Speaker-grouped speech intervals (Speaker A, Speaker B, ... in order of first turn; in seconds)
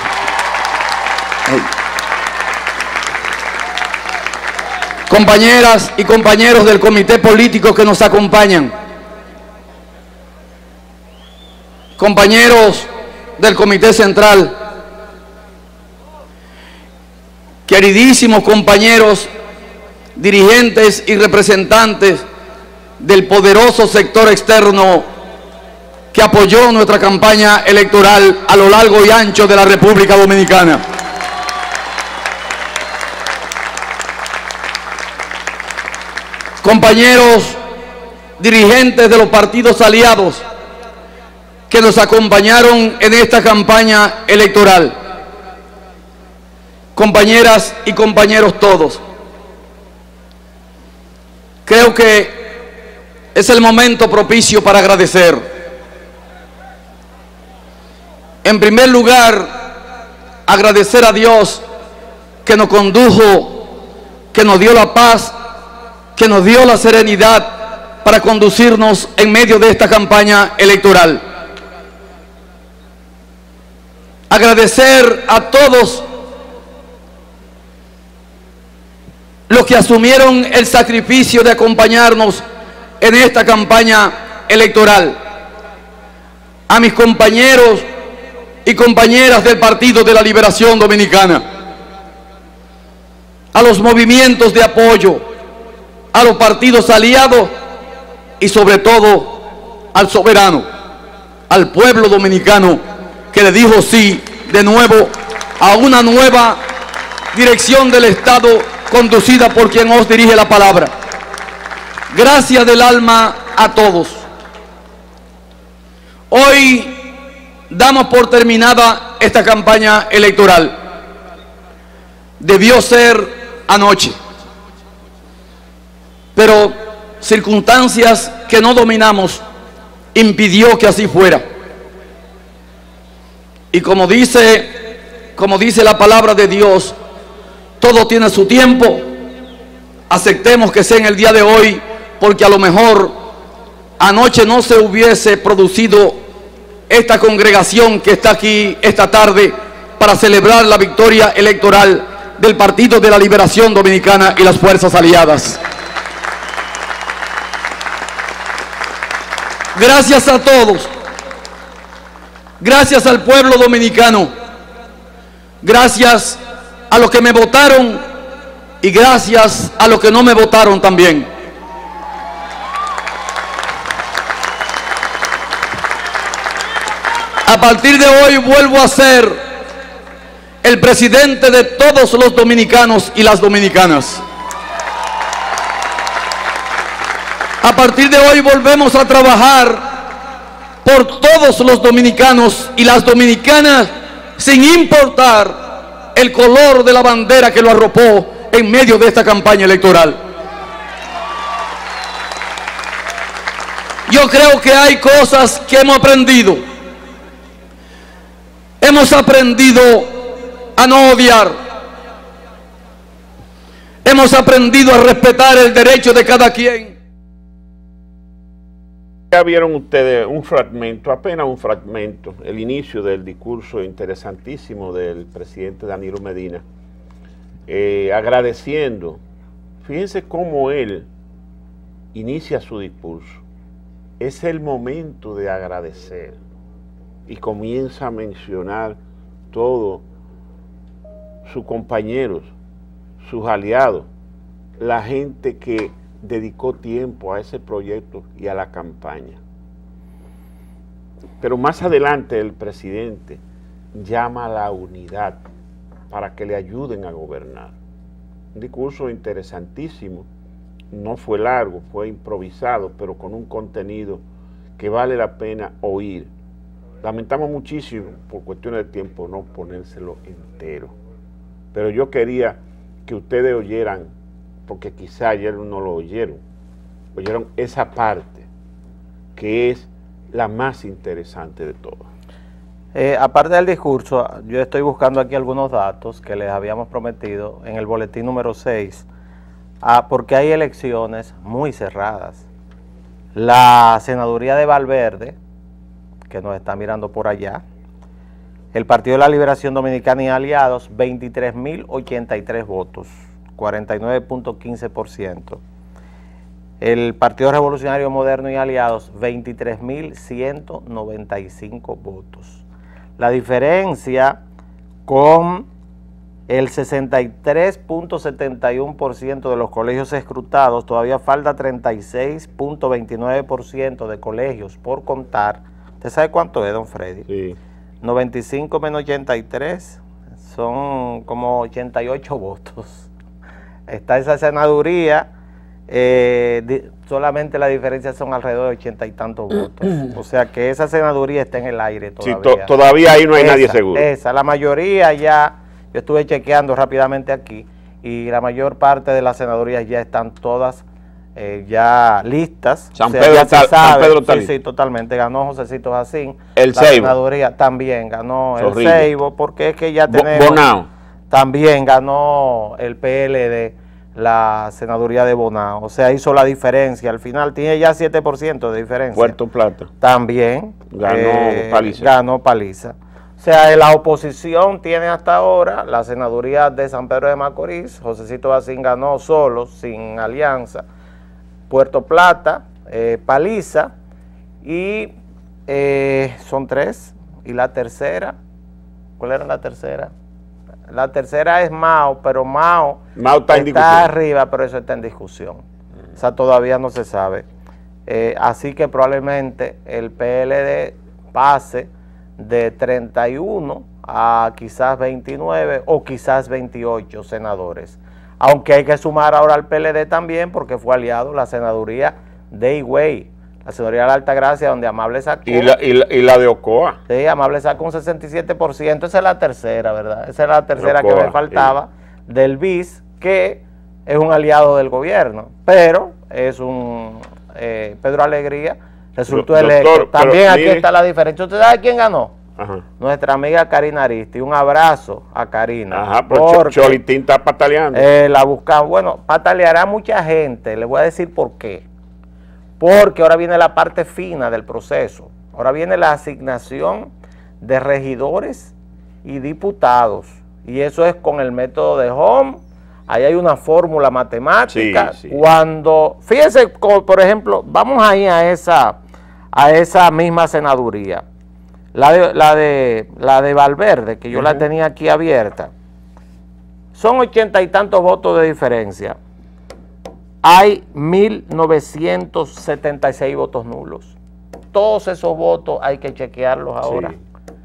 Speaker A: 5.1-8.7, 12.0-14.6, 17.7-19.3, 20.1-22.2, 23.0-25.1, 26.1-30.8, 36.6-37.6, 38.4-40.4, 41.7-45.0, 46.9-49.0, 51.6-52.5, 53.3-55.5, 58.4-59.7, 60.5-61.6, 62.4-63.6, 64.3-65.4, 66.1-71.2, 74.3-76.0, 79.5-82.4, 83.0-85.2, 86.7-87.9, 88.6-91.5, 93.5-95.2, 96.1-97.5, 98.4-100.7, 101.5-106.6, 107.3-110.9, 112.1-114.2, 116.3-117.0, 117.7-120.8, 122.4-124.2, 126.3-129.4, 130.1-131.4, 133.7-136.9, 137.8-139.1, 140.1-143.1, 144.0-146.2, 146.9-155.6, 159.7-160.9, 162.6-164.3, 165.6-168.0, 168.8-171.3, 177.4-179.4, 180.6-184.2, 187.6-190.0, 190.8-200.2, 204.1-206.6, 208.8-211.6, 214.0-216.9
Speaker B: 219.3-226.6, 227.7-229.2, 229.8-231.1, 232.1-233.4, 234.2-236.4, 237.3-239.0, 239.5-240.0, 241.4-242.5, 243.2-244.1, 244.8-249.4, 251.4-253.4, 253.9-255.4, 256.1-257.7, 258.5-260.3, 260.9-264.2, 264.8-266.3, 267.0-270.9, 271.7-274.1, 274.7-276.4, 277.1-278.5, 279.4-282.0, 327.3-327.6, 342.2-344.1, 352.9-354.5, 356.6-357.1, 358.6-359.1, 360.1-360.9, 369.1-369.9, 370.9-372.1, 393.1-394.1, 415.4-417.0, 420.8-421.7, 429.3-430.8, 432.6-432.8, 435.9-438.1, 454.7-455.4, 464.3-464.6, 476.8-477.2
Speaker C: 282.9-289.0, 289.8-292.4, 293.3-295.4, 296.3-297.6, 298.7-305.6, 306.8-312.6, 313.2-314.4, 315.1-315.7, 316.5-327.3, 328.0-333.1, 333.9-335.3, 335.9-342.7, 343.3-350.8, 351.4-360.6, 361.3-369.3, 370.0-380.8, 381.7-383.9, 384.6-385.1, 385.7-388.3, 389.2-390.1, 390.9-395.6, 396.1-397.4, 398.1-415.7, 417.1-432.4, 433.0-437.0, 437.9-441.8, 442.8-447.1, 447.6-448.7, 449.2-459.0, 459.5-461.2, 461.9-465.7, 466.9-469.2, 470.4-474.1, 474.7-477.2